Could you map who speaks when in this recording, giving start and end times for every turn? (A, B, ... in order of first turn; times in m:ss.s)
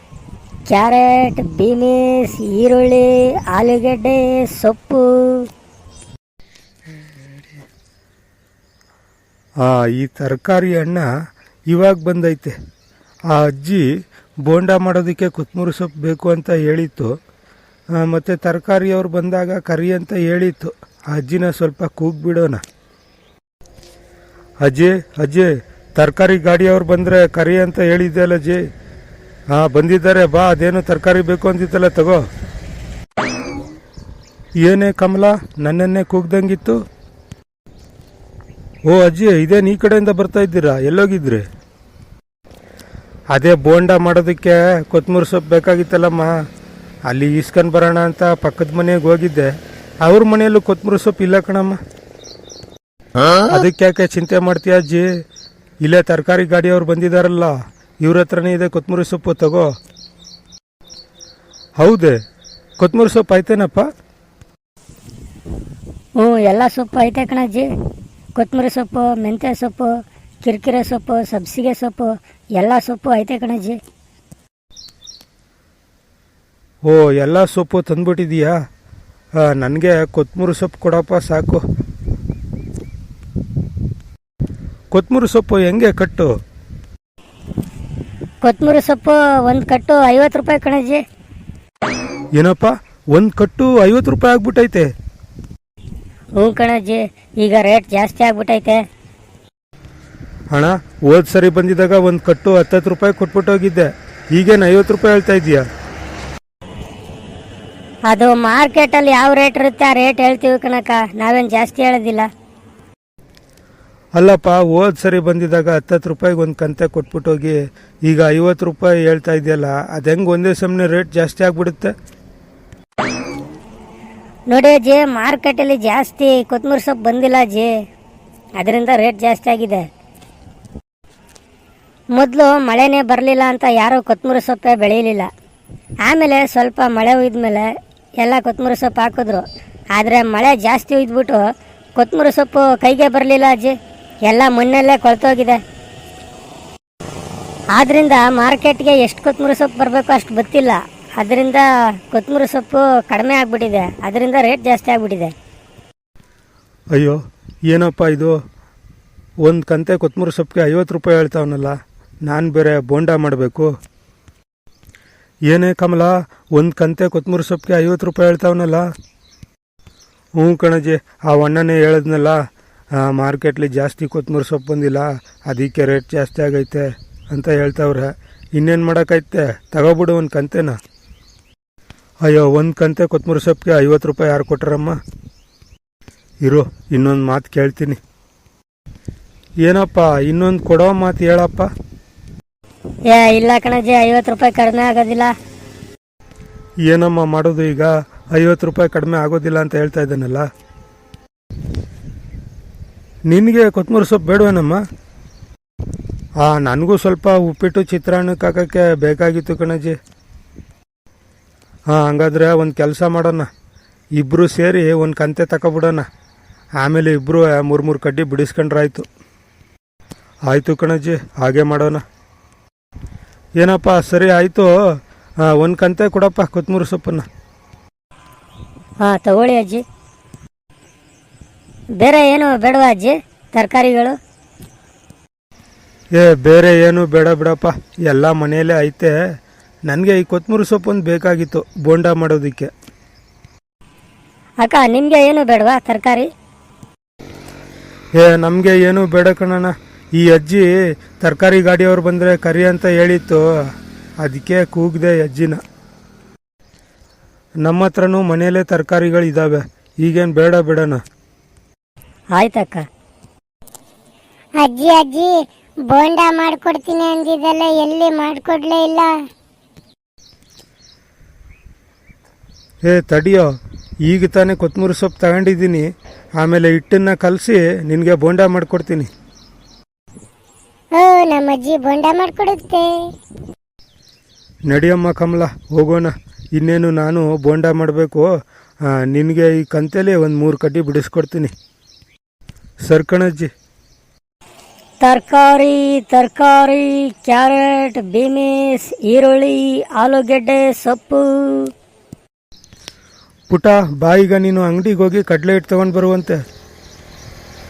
0:00.7-0:05.5 A
0:09.6-0:11.1 B
0:11.7-0:12.6 B
0:13.3-0:13.8 B
0:14.4-0:17.1 B
0:18.0-0:22.6 B
0:24.6-0:28.6 B
0:29.5-0:32.2 B
0:34.6-0:36.8 B
0:38.9-0:41.4 B
0:43.3-0:46.3 B
0:47.1-0:49.5 B
0:50.0-0:51.8 B
0:53.4-0:55.1 B
0:55.8-0:59.7 B
1:01.8-1:02.2 B
1:02.8-1:03.8 B
1:06.2-1:07.7 A
1:08.4-1:09.9 A
1:10.4-1:13.8 A
1:16.9-1:18.5 B
1:19.5-1:21.6 B
1:24.9-1:26.3 B
1:28.4-1:31.0 A
1:32.4-1:34.9 B
1:36.4-1:38.8 A
1:40.5-1:45.6 B
1:48.1-1:52.3 A
1:54.2-2:01.9 B
2:04.5-2:07.7 A
2:08.6-2:09.8 A
2:12.2-2:15.3 A
2:16.0-2:17.7 A
2:18.2-2:19.4 A
2:20.0-2:21.4 A
2:22.0-2:23.7 A
2:24.3-2:25.6 A
2:27.8-2:35.3 A
2:37.7-2:38.4 B
2:39.4-2:41.7 B
2:42.2-2:43.7 B
2:45.5-2:48.8 B
2:50.4-2:52.4 B
2:53.0-3:00.8 B
3:02.2-3:05.0 B
3:06.4-3:08.0 B
3:09.6-3:11.7 B
3:13.1-3:15.3 A
3:16.8-3:20.4 B
3:23.3-3:24.8 B
3:26.4-3:30.0 B
3:31.9-3:33.5 B
3:34.2-3:36.0 B
3:36.8-3:39.1 B
3:40.5-3:42.0 B
3:43.6-3:44.7 B
3:45.4-3:47.2 B
3:49.0-3:49.8 A
3:52.0-3:54.1 A
3:56.2-3:59.1 B
3:59.9-4:02.7 B
4:04.6-4:06.3 A
4:08.2-4:13.4 B
4:14.2-4:15.6 B
4:17.6-4:21.0 B
4:22.3-4:22.8 A
4:24.6-4:25.3 C
4:25.9-4:29.1 C
4:32.9-4:33.5 B
4:34.1-4:35.9 B
4:36.4-4:39.1 B
4:41.0-4:42.9 C
4:44.7-4:48.3 B
4:49.0-4:51.5 B
4:52.9-4:53.5 B
4:55.0-5:01.7 A
5:03.5-5:06.4 B